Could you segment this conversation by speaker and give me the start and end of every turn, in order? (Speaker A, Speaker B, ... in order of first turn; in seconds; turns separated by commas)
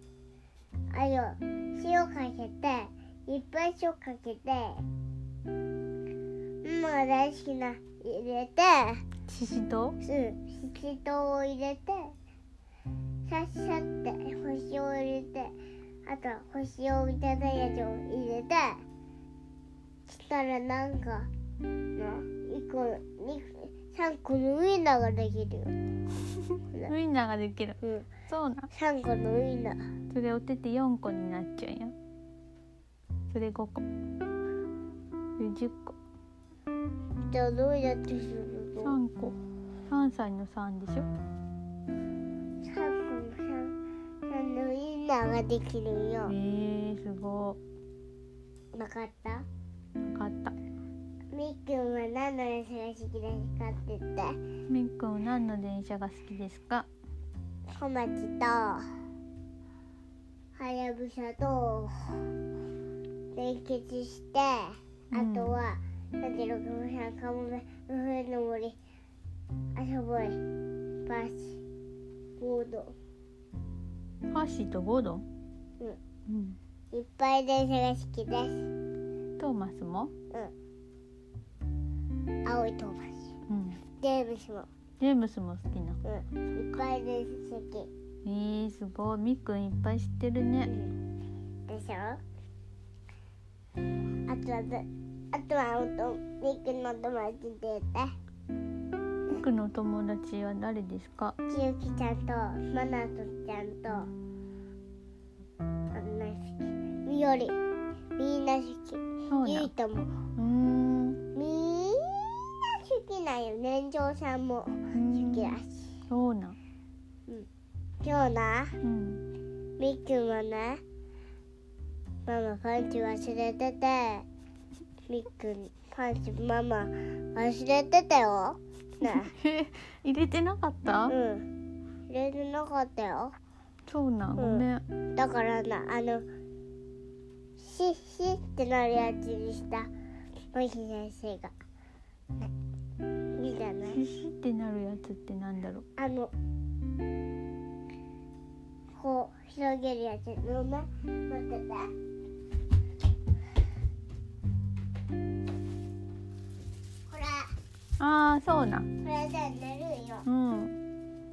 Speaker A: 0.9-4.8, Speaker A: 6.6-9.0, Speaker B: 9.3-10.0, Speaker A: 10.0-12.1, Speaker A: 13.2-15.5, Speaker A: 16.1-18.8, Speaker A: 20.1-21.3, Speaker A: 21.9-25.7, Speaker B: 26.9-28.7, Speaker A: 27.8-28.1, Speaker A: 28.7-29.8, Speaker B: 30.1-31.9, Speaker B: 33.3-33.8, Speaker B: 35.4-36.0, Speaker A: 37.3-38.9, Speaker B: 38.8-39.4, Speaker B: 39.9-41.1, Speaker A: 42.6-43.7, Speaker A: 44.3-46.3, Speaker B: 46.3-47.6, Speaker A: 48.7-49.5, Speaker B: 50.0-50.5, Speaker A: 51.3-54.4, Speaker B: 54.7-56.9, Speaker A: 57.7-58.9, Speaker A: 60.5-62.2, Speaker A: 63.3-68.8, Speaker B: 65.1-65.5, Speaker A: 69.8-70.4, Speaker A: 71.0-71.6, Speaker A: 72.4-72.9, Speaker B: 74.3-75.2, Speaker B: 76.3-76.6, Speaker A: 76.9-78.7, Speaker B: 79.4-80.1, Speaker A: 82.5-83.4, Speaker B: 83.5-83.8, Speaker A: 84.0-84.7, Speaker B: 85.0-86.0, Speaker A: 86.0-87.9, Speaker B: 88.2-90.7, Speaker A: 90.7-90.9, Speaker A: 91.7-92.2, Speaker A: 94.3-98.1, Speaker B: 99.3-101.3, Speaker A: 101.5-104.1, Speaker A: 105.9-107.5, Speaker A: 108.2-110.2, Speaker B: 109.3-109.7, Speaker B: 110.4-111.2, Speaker A: 111.3-115.9, Speaker B: 114.9-115.5, Speaker B: 116.1-116.6, Speaker A: 118.0-118.8, Speaker B: 118.8-119.2, Speaker A: 119.8-120.8, Speaker A: 122.2-124.2, Speaker A: 125.1-129.3, Speaker B: 129.0-131.1, Speaker A: 131.1-131.5, Speaker A: 132.1-133.3, Speaker B: 133.8-134.8, Speaker A: 134.3-134.6, Speaker A: 135.2-136.2, Speaker A: 137.6-139.9, Speaker A: 140.5-141.5, Speaker A: 143.3-144.0, Speaker B: 143.9-145.8, Speaker A: 146.0-146.3, Speaker A: 148.9-151.9, Speaker A: 157.1-157.5, Speaker B: 158.0-158.9, Speaker A: 159.0-160.3, Speaker B: 160.3-160.8